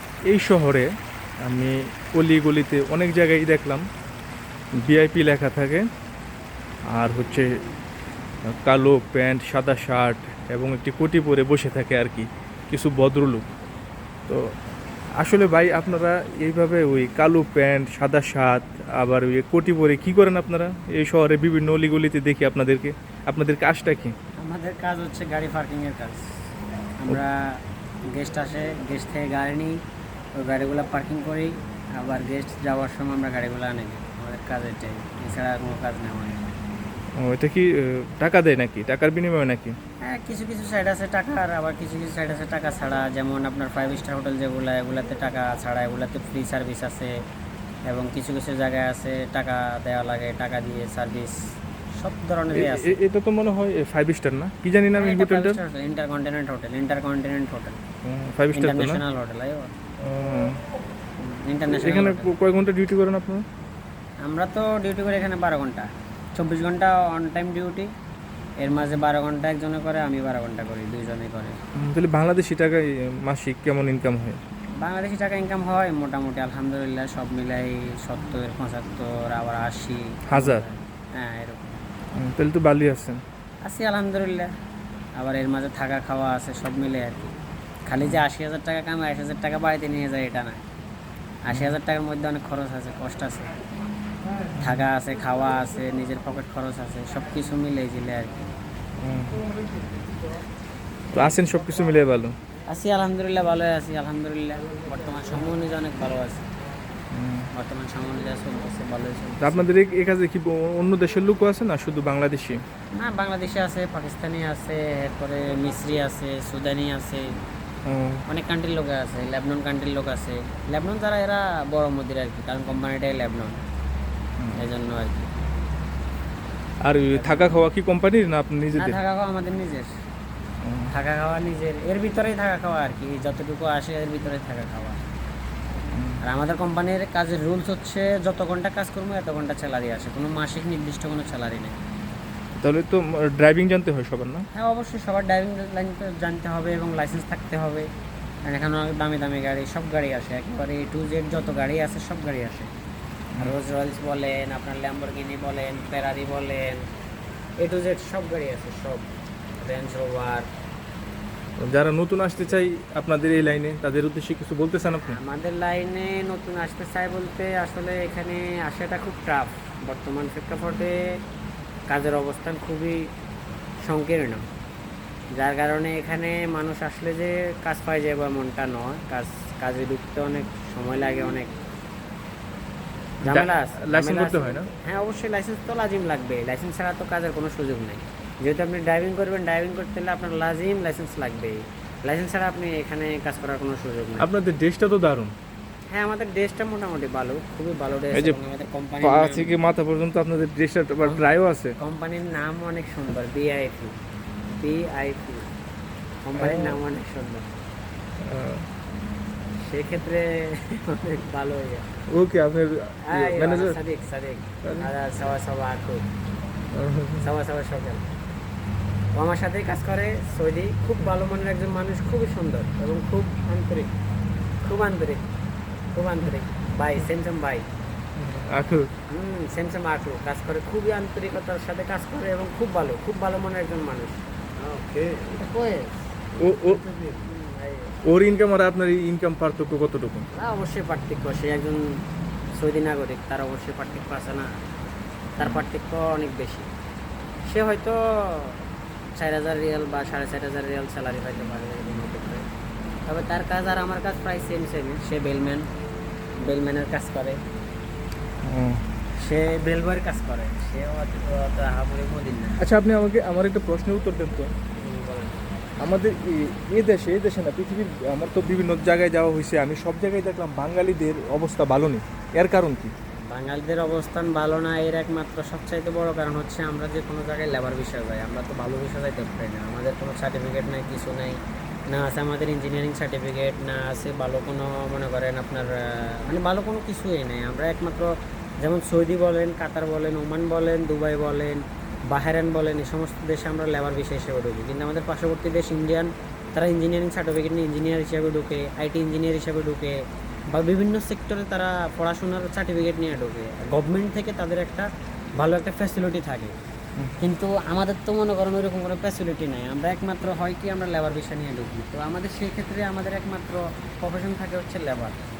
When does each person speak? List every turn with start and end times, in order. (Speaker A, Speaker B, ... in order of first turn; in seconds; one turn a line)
Speaker A: 0.3-0.9
Speaker A: 1.4-3.8
Speaker A: 4.8-5.8
Speaker A: 6.9-7.6
Speaker A: 8.5-13.4
Speaker A: 15.2-24.1
Speaker B: 24.4-26.3
Speaker B: 27.0-29.8
Speaker B: 30.4-36.5
Speaker A: 37.2-39.7
Speaker B: 40.0-47.1
Speaker B: 47.9-51.3
Speaker B: 52.0-53.0
Speaker A: 52.5-55.6
Speaker B: 55.0-57.8
Speaker A: 58.0-59.0
Speaker B: 58.5-59.7
Speaker A: 60.0-60.6
Speaker B: 61.2-62.3
Speaker A: 61.7-63.4
Speaker B: 64.2-67.9
Speaker B: 68.6-71.6
Speaker A: 71.8-74.4
Speaker B: 74.8-81.8
Speaker A: 80.3-80.6
Speaker A: 82.1-83.2
Speaker B: 83.6-84.5
Speaker B: 85.2-87.3
Speaker B: 87.9-90.6
Speaker B: 91.4-93.5
Speaker B: 94.6-98.4
Speaker A: 99.0-99.5
Speaker A: 101.1-102.3
Speaker B: 102.7-106.5
Speaker A: 107.1-107.5
Speaker B: 107.5-109.7
Speaker A: 109.4-112.6
Speaker B: 113.0-117.3
Speaker A: 117.8-118.2
Speaker B: 118.3-123.6
Speaker A: 124.4-124.6
Speaker B: 124.6-125.3
Speaker A: 126.8-129.0
Speaker B: 127.1-127.7
Speaker B: 128.7-129.9
Speaker A: 130.6-130.9
Speaker B: 130.9-135.0
Speaker B: 136.2-141.8
Speaker A: 142.6-144.4
Speaker B: 144.5-147.9
Speaker B: 148.4-152.7
Speaker B: 153.4-156.8
Speaker B: 157.6-159.1
Speaker B: 159.6-160.4
Speaker A: 161.6-165.2
Speaker B: 165.0-171.0
Speaker B: 171.9-173.1
Speaker B: 173.8-174.4
Speaker B: 175.3-181.5
Speaker B: 183.2-194.3
Speaker A: 183.2-184.7
Speaker A: 194.2-195.3
Speaker B: 195.9-199.6
Speaker A: 198.1-198.4
Speaker A: 199.0-201.8
Speaker B: 201.8-203.9
Speaker B: 204.5-205.5
Speaker B: 206.2-207.5
Speaker A: 206.4-206.8
Speaker A: 208.2-208.6
Speaker B: 209.6-211.9
Speaker A: 212.1-213.8
Speaker B: 213.1-216.0
Speaker A: 214.6-214.9
Speaker A: 216.7-217.3
Speaker B: 217.2-218.1
Speaker B: 219.1-223.9
Speaker B: 224.6-225.3
Speaker B: 225.9-227.7
Speaker A: 228.2-228.9
Speaker B: 229.1-235.9
Speaker A: 236.4-236.8
Speaker B: 237.1-238.0
Speaker A: 238.0-240.3
Speaker B: 240.3-242.0
Speaker B: 242.6-244.6
Speaker B: 245.4-246.7
Speaker B: 247.4-252.4
Speaker B: 253.1-255.7
Speaker B: 256.4-257.4
Speaker A: 258.4-258.8
Speaker B: 259.2-262.6
Speaker A: 262.6-264.5
Speaker B: 264.8-265.4
Speaker A: 265.8-272.9
Speaker B: 273.3-300.0
Speaker B: 300.5-304.9
Speaker B: 305.4-306.5
Speaker B: 307.2-315.2